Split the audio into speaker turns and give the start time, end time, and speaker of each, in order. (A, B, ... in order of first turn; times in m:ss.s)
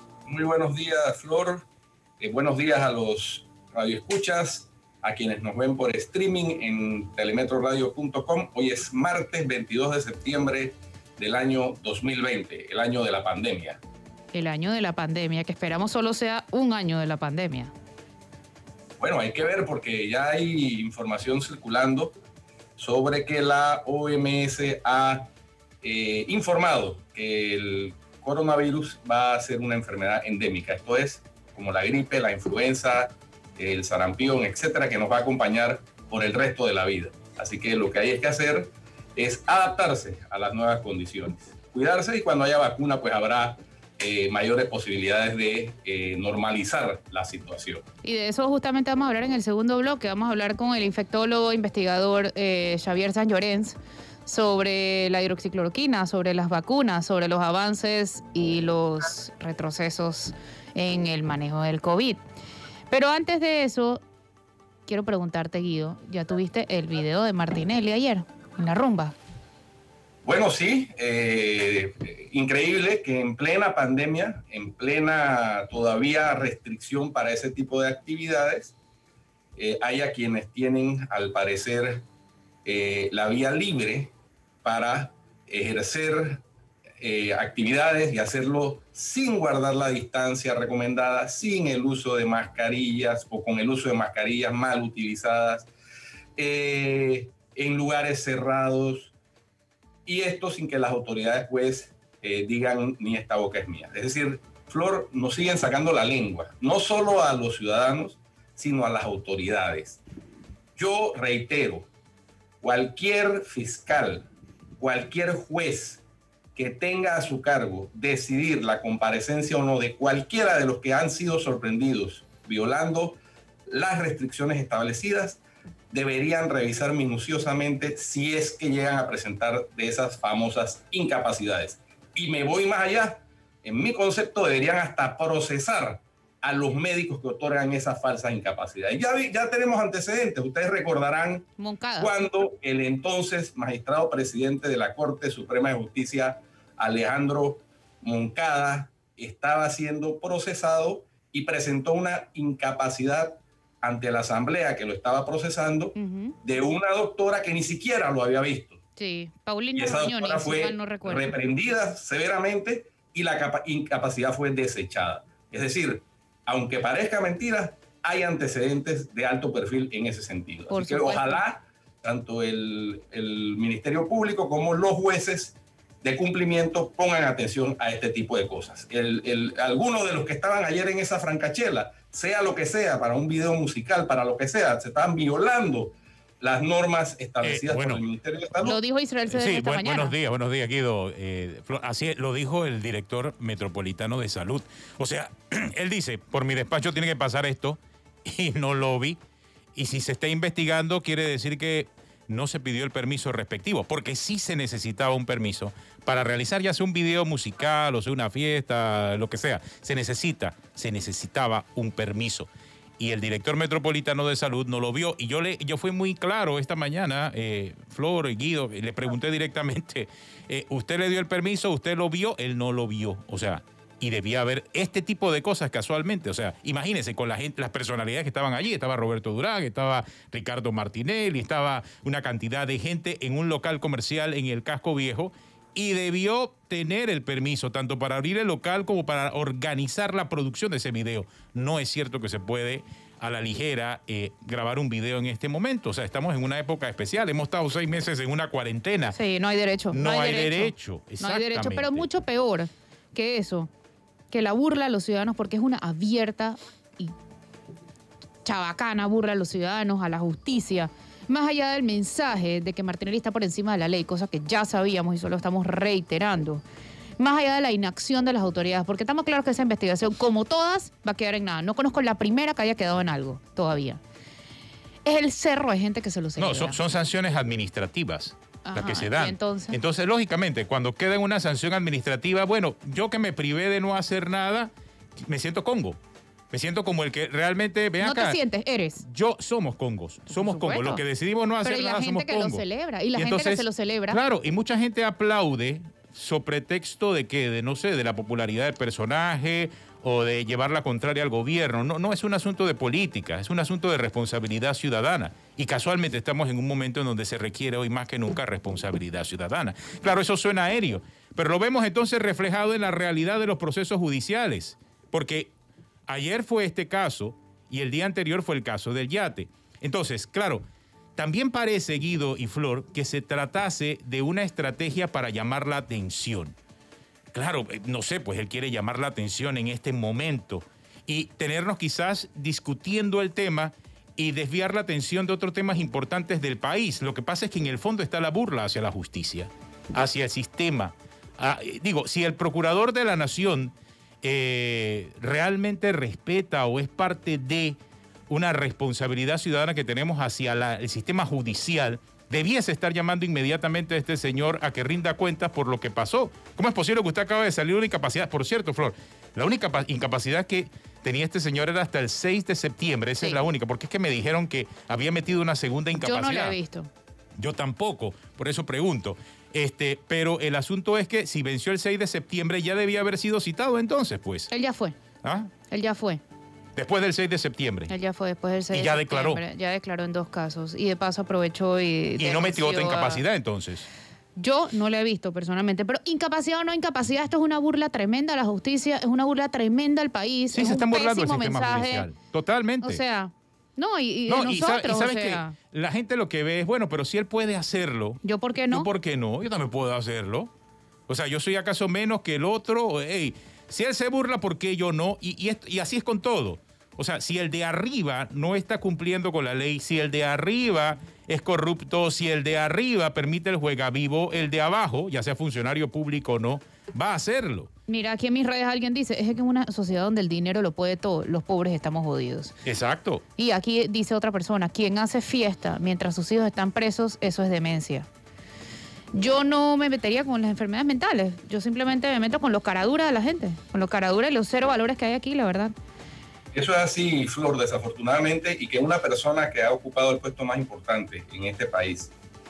0:00.2-0:01.6 A
0:02.2-0:13.8 A
0:14.3-0:17.7 B
0:19.0-0:22.1 A
0:22.8-0:25.3 A
0:25.8-0:47.8 A
0:48.0-1:02.2 B
1:02.9-1:04.0 B
1:04.9-1:09.2 B
1:10.2-1:18.8 A
1:19.6-1:22.0 A
1:22.6-1:24.1 A
1:24.6-1:26.4 A
1:27.0-1:35.7 A
1:36.4-1:39.1 A
1:40.1-1:50.0 A
1:50.8-1:51.9 A
1:52.6-1:56.0 A
1:56.6-2:05.4 A
2:05.9-2:21.5 A
2:21.6-2:22.1 B
2:22.0-2:38.8 A
2:36.0-2:36.3 B
2:39.0-2:41.3 B
2:39.8-3:08.8 A
2:50.7-2:51.4 B
3:07.4-3:08.0 C
3:08.6-3:10.1 B
3:09.3-3:19.2 C
3:19.7-4:09.2 C
4:09.1-4:13.7 B
4:09.9-4:12.1 C
4:14.3-4:17.1 B
4:18.4-4:26.6 B
4:27.2-4:34.0 B
4:35.0-4:36.8 B
4:36.4-4:46.0 C
4:38.6-4:39.8 B
4:46.5-4:48.4 C
4:48.0-4:49.0 B
4:49.0-5:15.5 C
4:50.3-4:51.0 B
4:51.6-4:54.2 B
5:16.1-5:20.6 C
5:21.2-5:26.6 C
5:27.3-6:06.6 C
6:06.0-6:06.9 B
6:07.4-6:14.5 C
6:14.5-6:15.0 B
6:15.2-6:15.5 C
6:15.7-6:16.2 B
6:16.8-6:17.9 C
6:17.9-6:23.2 B
6:18.7-6:19.4 C
6:22.2-6:23.9 C
6:24.4-6:32.1 B
6:30.5-6:33.0 C
6:32.8-6:35.6 B
6:34.3-6:38.2 C
6:38.2-6:38.9 B
6:38.7-6:40.5 C
6:41.1-6:57.7 C
6:57.9-7:02.6 B
7:02.6-7:03.2 C
7:03.4-7:08.1 B
7:09.1-7:15.7 B
7:16.5-7:22.1 A